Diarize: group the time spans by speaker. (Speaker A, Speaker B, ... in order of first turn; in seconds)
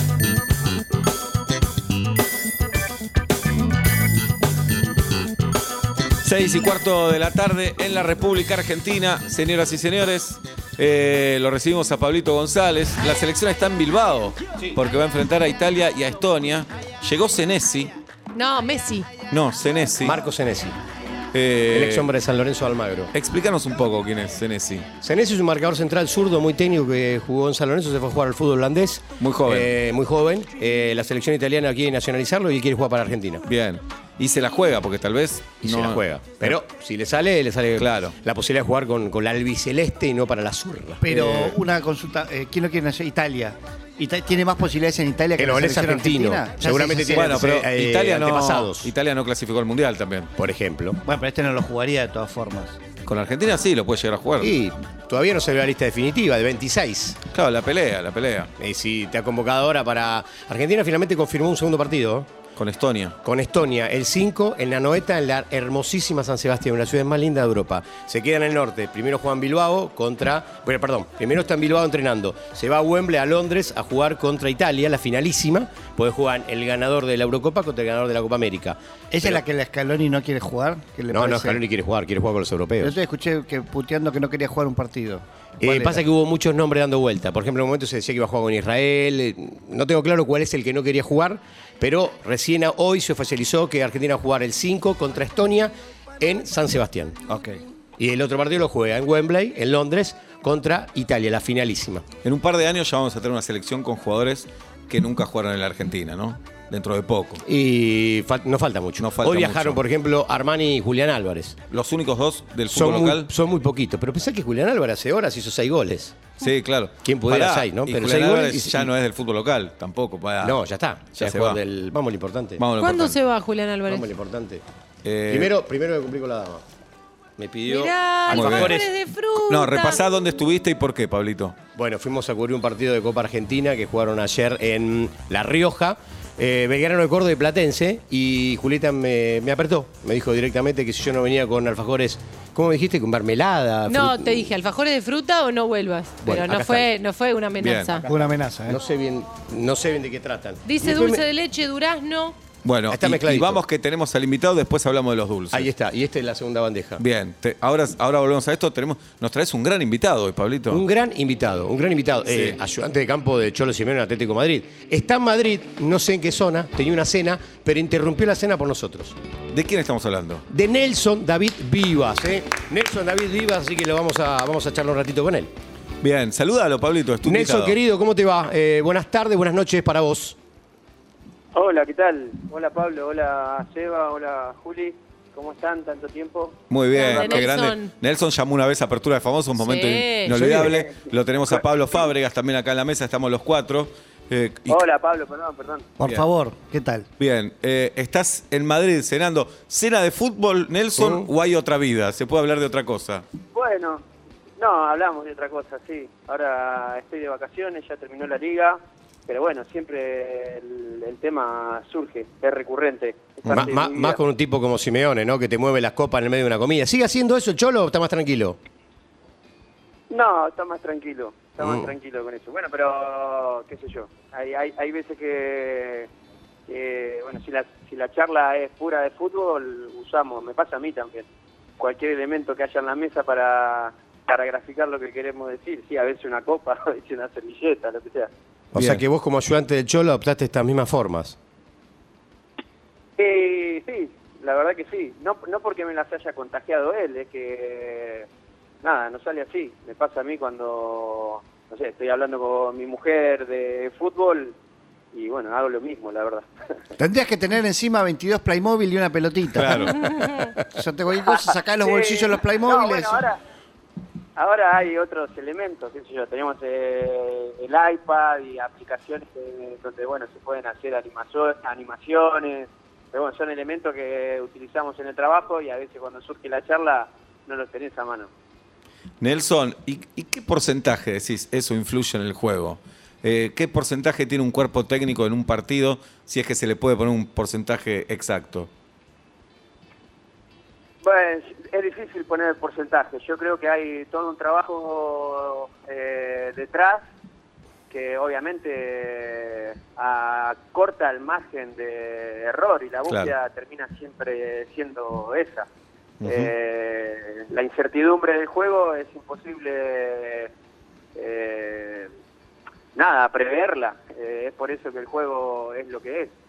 Speaker A: 6.2-17.9, 19.3-20.2, 21.3-22.1, 23.1-24.9, 29.2-29.7, 33.5-36.6, 37.8-38.1, 47.1-50.3, 53.0-54.5, 57.3-58.5, 62.6-63.1, 102.2-107.4, 109.0-109.8, 111.7-113.3, 116.4-120.6, 121.2-121.6, 122.6-123.2, 125.0-125.5, 128.3-128.8, 129.4-131.6, 147.6-148.0, 152.6-155.7, 157.0-160.8, 162.3-162.6, 169.5-170.4, 176.0-177.8, 186.7-194.8, 196.0-196.3, 197.2-203.2, 238.7-239.0, 259.6-260.1, 279.2-288.7, 306.2-306.5
Speaker B: 18.4-19.1, 122.8-124.1, 127.7-130.1, 143.9-148.1, 150.7-152.4, 186.9-187.9, 189.6-190.5
Speaker C: 20.0-20.8, 21.7-23.1, 25.0-33.5, 35.6-41.5, 45.4-48.9, 50.4-51.0, 54.4-57.2, 58.6-62.3, 63.2-79.4, 81.1-82.9, 85.6-97.2, 98.0-102.1, 107.4-111.6, 112.7-116.2, 117.0-118.9, 120.4-122.6, 123.9-124.6, 125.3-126.6, 127.4-128.9, 131.8-144.5, 146.2-146.9, 148.7-151.2, 152.9-153.6, 155.5-157.0, 160.7-169.2, 170.5-175.5, 177.2-180.4, 201.0-201.3, 213.5-218.6, 221.6-221.9, 238.7-241.4
Speaker D: 41.0-47.3, 51.0-52.8, 79.1-81.6, 82.8-86.0, 97.3-97.6, 148.1-148.8, 196.0-197.1, 257.0-263.2
Speaker E: 181.6-187.5, 190.5-191.0, 194.7-195.9, 203.5-204.0, 204.6-214.2, 220.1-226.1, 226.7-231.3, 231.8-238.3, 243.2-248.3, 248.8-254.6, 255.1-256.5, 261.3-263.4, 264.4-278.3, 291.0-297.1, 297.9-305.7, 306.2-310.5, 311.1-312.1, 312.9-316.3